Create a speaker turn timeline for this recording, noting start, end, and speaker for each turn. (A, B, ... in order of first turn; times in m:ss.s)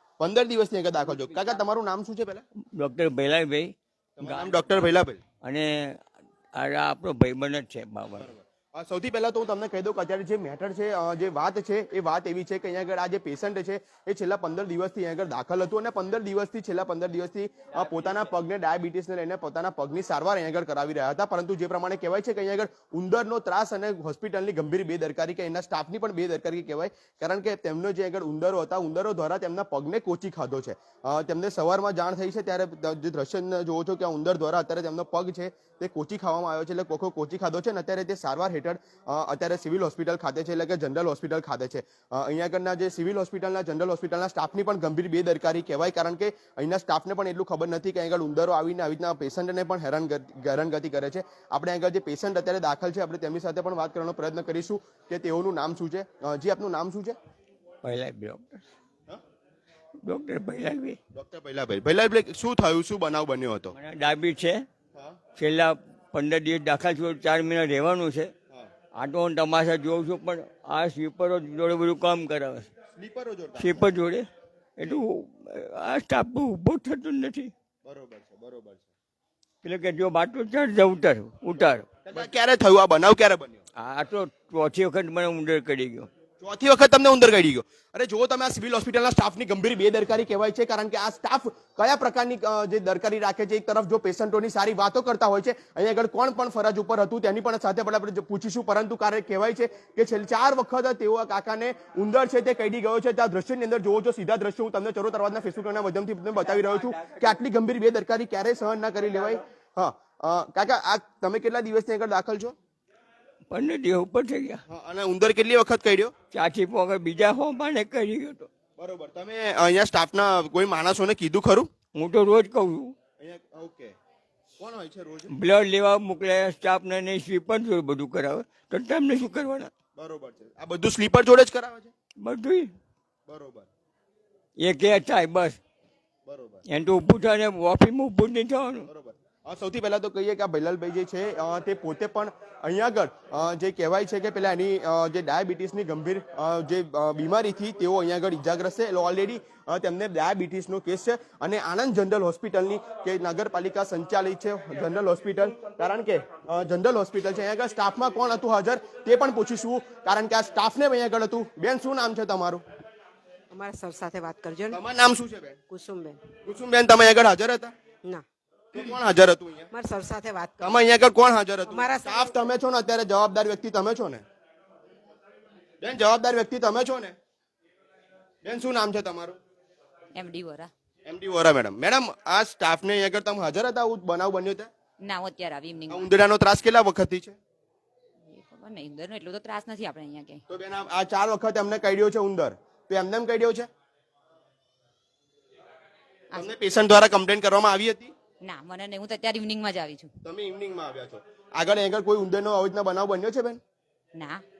0:00.2-0:02.4 A
0:01.0-0:01.6 B
0:02.7-0:04.8 B
0:04.2-0:05.2 A
0:05.4-0:06.0 B
0:06.5-0:08.3 B
0:08.2-0:57.2 A
0:57.8-0:58.6 B
1:00.0-1:01.0 B
1:01.1-1:03.7 A
1:03.7-1:04.6 B
1:05.4-1:08.3 B
1:08.9-1:12.7 B
1:13.0-1:13.9 A
1:13.6-1:14.2 B
1:14.8-1:17.5 B
1:17.8-1:18.9 A
1:19.6-1:22.3 B
1:22.0-1:23.6 A
1:23.8-1:26.1 B
1:26.4-1:52.6 A
1:53.5-1:54.6 B
1:54.7-1:56.1 A
1:56.3-1:58.5 B
1:58.8-2:01.7 A
2:01.9-2:02.9 B
2:03.2-2:03.9 A
2:04.6-2:05.3 A
2:05.3-2:09.7 B
2:10.0-2:11.9 A
2:12.2-2:12.7 B
2:13.3-2:13.7 A
2:14.6-2:15.6 B
2:16.3-2:16.6 A
2:16.6-2:18.9 B
2:18.9-2:42.6 A
2:43.5-2:44.8 C
2:44.7-2:45.6 A
2:45.7-2:46.2 C
2:46.4-2:47.7 A
2:48.7-2:49.7 A
2:49.7-2:50.5 C
2:50.6-2:54.2 A
2:51.7-2:52.2 C
2:55.8-2:57.2 A
2:58.4-2:59.4 A
3:00.1-3:00.7 D
3:01.0-3:04.7 A
3:05.0-3:06.1 D
3:05.9-3:07.4 A
3:08.3-3:10.4 D
3:10.5-3:13.7 A
3:16.3-3:18.1 A
3:18.4-3:20.1 D
3:20.2-3:23.6 A
3:24.1-3:24.4 D